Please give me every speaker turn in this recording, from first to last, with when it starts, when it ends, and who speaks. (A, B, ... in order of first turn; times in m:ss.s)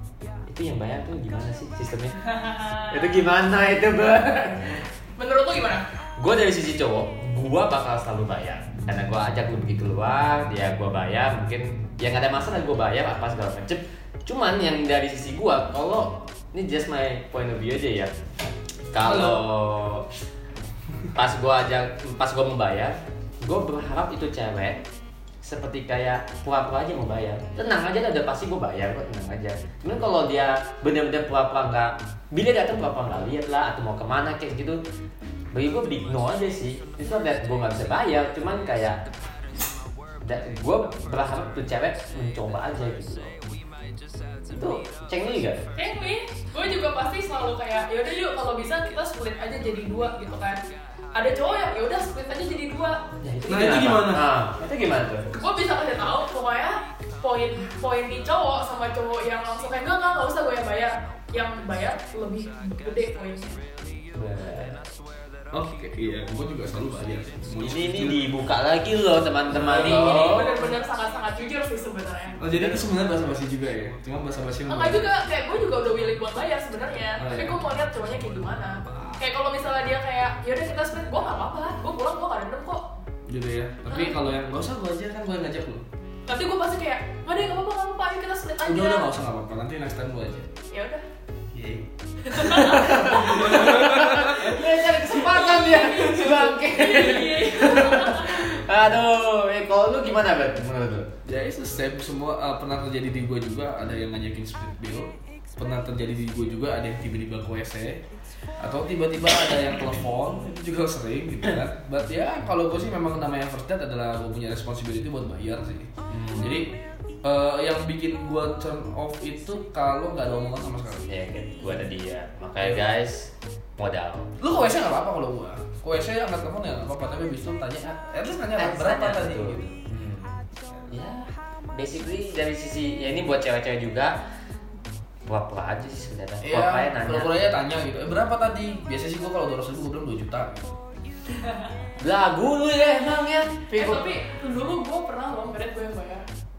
0:00.4-0:02.2 A
0:02.3-0:03.3 B
0:02.8-0:04.8 A
0:05.2-0:05.8 B
0:06.2-0:18.1 A
0:18.9-0:20.1 A
0:19.0-0:19.4 C
0:21.1-0:24.8 A
0:25.4-0:34.8 A
0:35.5-0:39.0 A
0:40.2-0:43.5 A
0:44.5-0:45.6 A
0:45.7-0:50.6 B
0:51.1-0:53.0 B
0:53.2-0:55.3 A
0:53.5-0:54.3 C
0:55.3-1:03.6 B
1:04.1-1:04.8 A
1:05.5-1:08.2 C
1:07.6-1:10.6 A
1:09.5-1:10.5 C
1:09.7-1:12.4 B
1:12.4-1:15.0 C
1:12.5-1:12.8 A
1:14.7-1:22.9 B
1:17.2-1:17.6 C
1:23.3-1:25.8 C
1:23.9-1:24.2 B
1:26.3-1:29.1 B
1:28.6-1:30.5 C
1:30.7-1:31.0 B
1:31.5-1:34.6 C
1:32.2-1:38.5 B
1:32.6-1:41.1 A
1:41.2-1:48.0 C
1:48.6-1:56.7 C
1:56.1-1:56.6 A
1:57.2-2:01.0 C
2:01.1-2:04.3 A
2:02.6-2:02.9 C
2:04.4-2:09.7 C
2:08.6-2:10.4 A
2:10.9-2:14.1 A
2:15.2-2:17.5 A
2:16.4-2:20.7 C
2:22.0-2:24.1 A
2:23.7-2:26.2 B